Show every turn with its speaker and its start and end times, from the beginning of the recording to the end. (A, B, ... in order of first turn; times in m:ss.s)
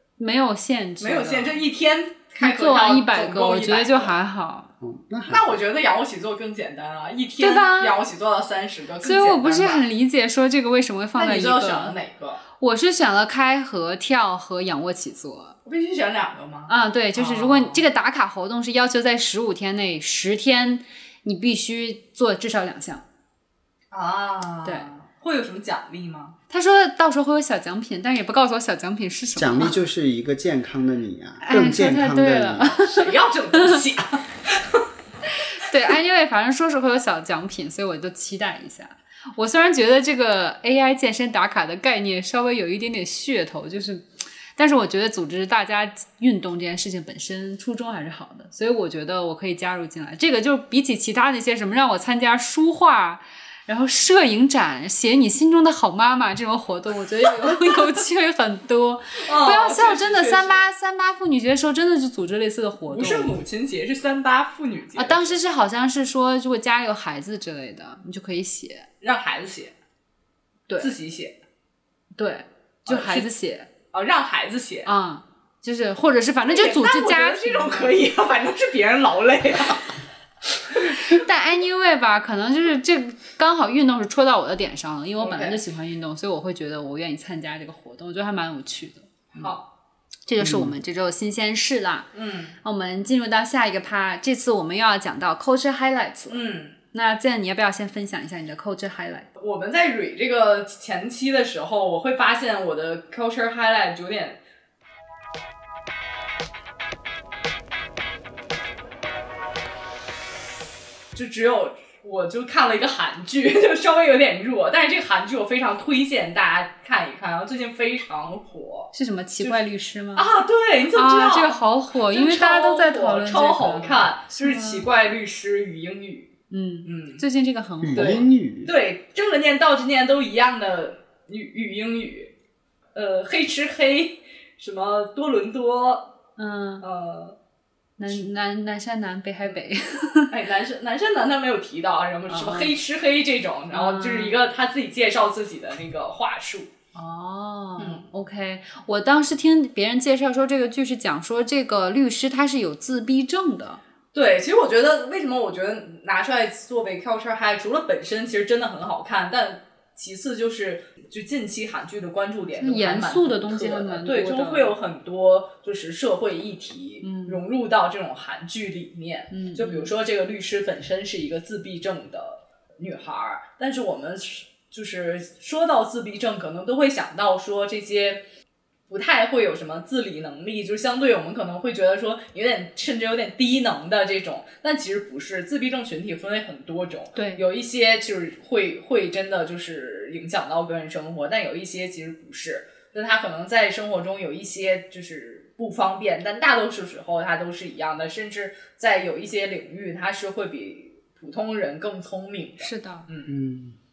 0:00.2-0:01.6 A
0:01.0-0:04.1 B
0:02.4-0:04.7 A
0:04.8-0:05.6 C
0:05.3-0:09.8 B
0:07.4-0:08.0 A
0:09.0-0:12.0 A
0:11.2-0:12.4 B
0:12.6-0:15.6 A
0:15.7-0:17.8 B
0:16.7-0:23.0 A
0:23.9-0:26.4 B
0:26.5-0:29.8 A
0:29.4-0:32.8 C
0:31.4-0:33.8 A
0:32.8-0:34.8 B
0:35.3-1:03.4 A
0:59.2-1:00.7 B
1:02.9-1:05.4 B
1:05.0-1:08.9 A
1:09.0-1:09.8 B
1:10.8-1:11.4 B
1:12.2-1:13.7 A
1:12.9-1:13.3 B
1:13.9-1:14.9 B
1:14.9-1:18.0 A
1:16.5-1:19.9 B
1:20.8-1:29.1 A
1:25.2-1:25.6 B
1:29.4-1:29.7 B
1:30.3-1:32.1 A
1:30.4-1:30.7 C
1:32.1-1:32.6 B
1:32.6-1:39.3 A
1:36.3-1:36.8 B
1:39.4-1:44.4 B
1:51.1-1:59.6 B
1:58.9-2:00.3 A
2:00.2-2:06.3 B
2:01.0-2:04.9 A
2:06.5-2:08.2 A
2:06.8-2:07.2 B
2:07.8-2:08.7 C
2:08.0-2:12.3 B
2:13.0-2:16.1 B
2:16.4-2:16.9 A
2:16.8-2:17.4 B
2:18.0-2:20.4 A
2:20.3-2:26.7 B
2:22.3-2:22.8 A
2:23.7-2:24.4 A
2:26.9-2:33.8 A
2:27.8-2:28.0 B
2:34.1-2:58.2 B
2:42.6-2:44.8 A
2:47.0-2:47.4 A
2:49.3-2:49.9 A
2:58.9-3:23.3 B
3:07.2-3:07.4 A
3:22.6-3:23.1 A
3:23.3-3:23.8 C